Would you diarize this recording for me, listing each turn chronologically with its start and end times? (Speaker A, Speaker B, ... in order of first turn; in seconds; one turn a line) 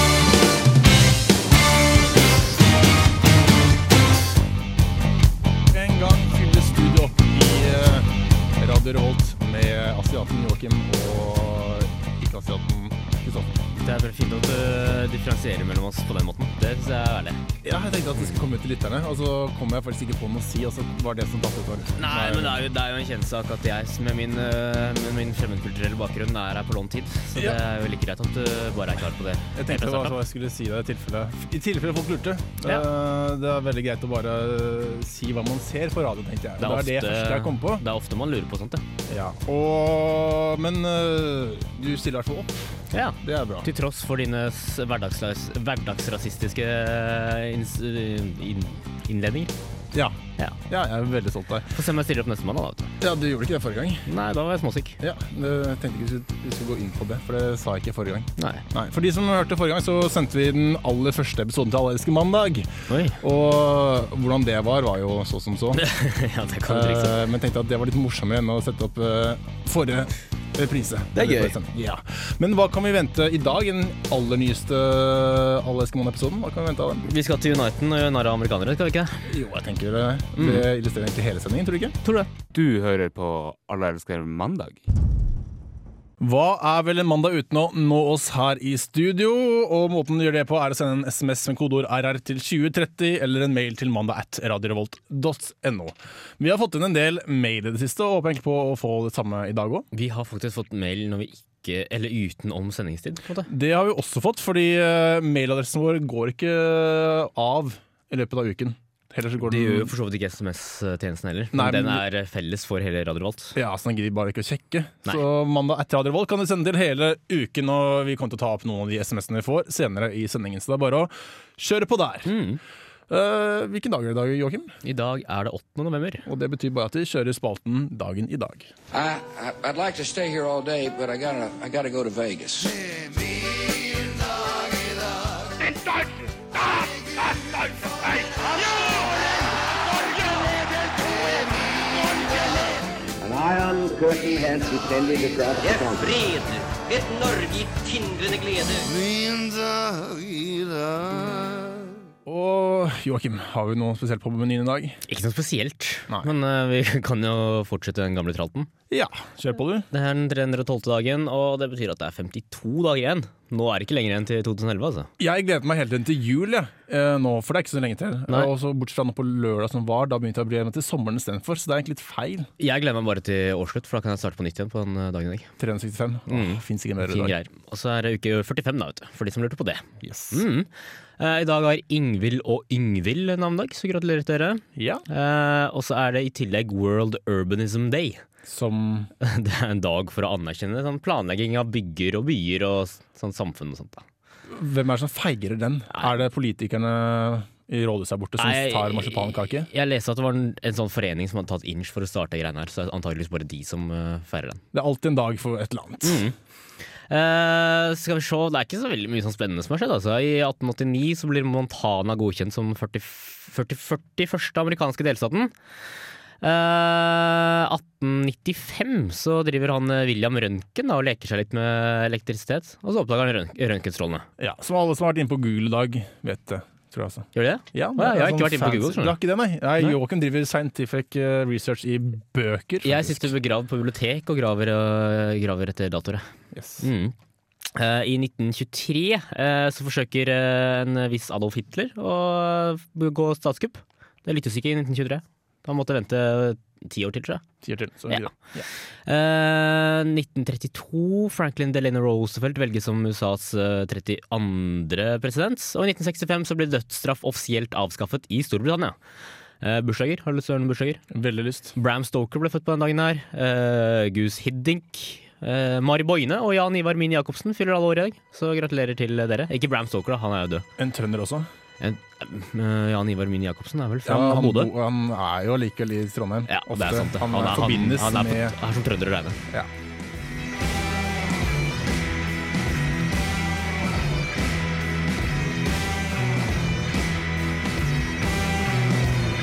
Speaker A: 5.7-13.6
Speaker B: 13.8-17.4
Speaker A: 17.6-22.6
Speaker B: 21.9-30.2
Speaker A: 27.4-27.6
Speaker A: 29.6-37.8
Speaker B: 36.6-38.8
Speaker A: 39.1-43.7
Speaker B: 42.9-49.5
Speaker A: 49.9-51.7
Speaker B: 51.7-52.9
Speaker A: 53.0-54.1
Speaker B: 54.1-55.0
Speaker A: 55.0-65.8
Speaker B: 58.4-58.6
Speaker B: 62.9-63.2
Speaker B: 65.7-67.2
Speaker A: 66.7-77.1
Speaker B: 71.2-71.5
Speaker B: 77.0-79.2
Speaker A: 79.3-82.0
Speaker B: 80.4-80.7
Speaker B: 82.0-82.3
Speaker C: 82.5-84.8
Speaker A: 86.2-99.9
Speaker B: 99.9-103.5
Speaker A: 103.5-109.9
Speaker B: 109.4-113.5
Speaker A: 111.5-112.0
Speaker A: 113.5-122.3
Speaker B: 122.3-122.6
Speaker A: 123.1-124.7
Speaker B: 124.8-126.2
Speaker A: 126.3-128.7
Speaker D: 128.9-132.8
Speaker E: 138.1-142.5
Speaker F: 143.2-146.0
Speaker E: 145.6-149.1
Speaker A: 152.2-155.0
Speaker B: 155.1-158.7
Speaker A: 158.9-159.9
Speaker B: 159.9-165.1
Speaker A: 165.2-172.5
Speaker B: 172.6-175.5
Speaker A: 175.6-177.4
Speaker B: 176.3-188.2
Speaker A: 180.0-180.4
Speaker A: 184.8-185.0
Speaker A: 188.5-189.1
Speaker B: 189.2-194.1
Speaker A: 194.5-199.7
Speaker B: 198.4-204.6
Speaker A: 204.7-206.2
Speaker B: 206.0-206.3
Speaker B: 207.1-215.5
Speaker B: 216.4-224.3
Speaker A: 224.4-233.3
Speaker B: 227.3-229.2
Speaker B: 232.8-236.3
Speaker A: 236.5-236.9
Speaker B: 236.8-237.2
Speaker B: 237.8-247.4
Speaker A: 247.6-248.7
Speaker B: 249.1-259.0
Speaker B: 259.6-261.0
Speaker A: 261.1-261.8
Speaker B: 261.8-270.7
Speaker A: 270.8-271.5
Speaker B: 271.8-274.7
Speaker A: 274.1-278.6
Speaker B: 276.5-279.4